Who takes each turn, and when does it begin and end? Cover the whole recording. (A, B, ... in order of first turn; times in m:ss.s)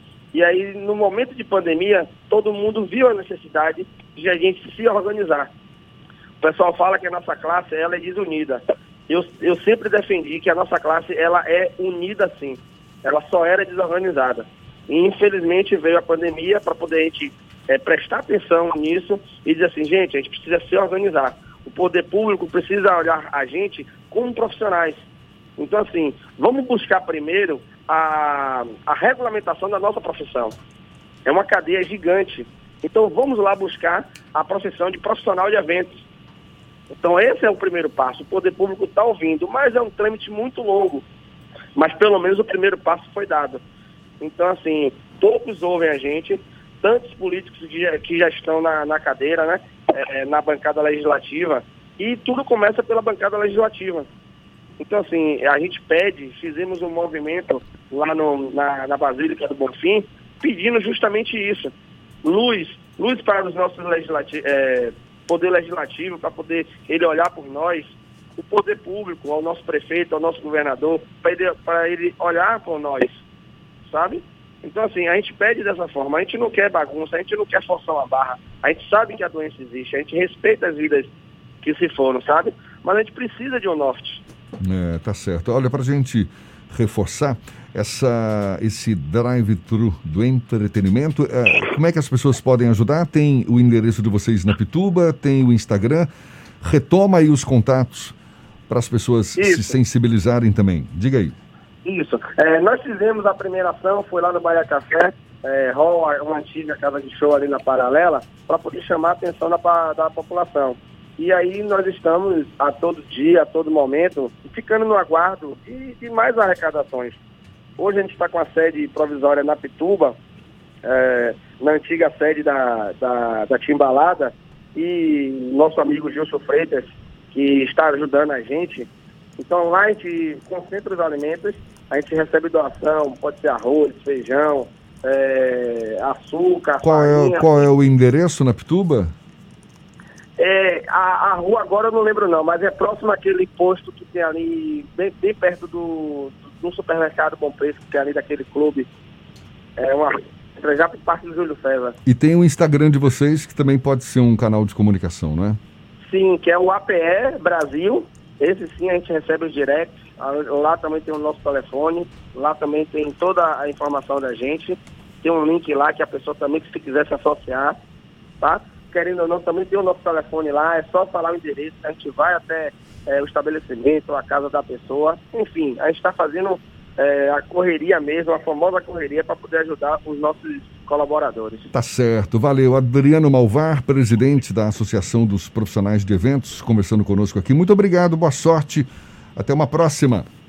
0:00.3-0:05.5 A
0:06.4-0:25.0 A
0:25.6-0:30.6 A
0:31.2-0:36.0 A
0:36.9-0:41.0 A
0:41.7-0:43.6 A
0:44.2-0:54.1 A
0:54.8-1:01.7 A
1:02.2-1:13.2 A
1:13.8-1:21.1 A
1:21.6-1:24.2 A
1:24.6-1:36.1 B
1:36.6-1:38.1 B
1:38.7-1:41.4 B
1:39.4-1:39.7 A
1:41.8-1:57.2 A
1:57.8-2:00.2 A
2:00.8-2:17.5 A
2:16.8-2:19.1 B
2:20.4-2:28.9 A
2:29.8-2:32.0 A
2:32.0-2:35.6 B
2:36.1-2:47.7 A
2:48.4-3:01.7 A
3:01.7-3:10.3 B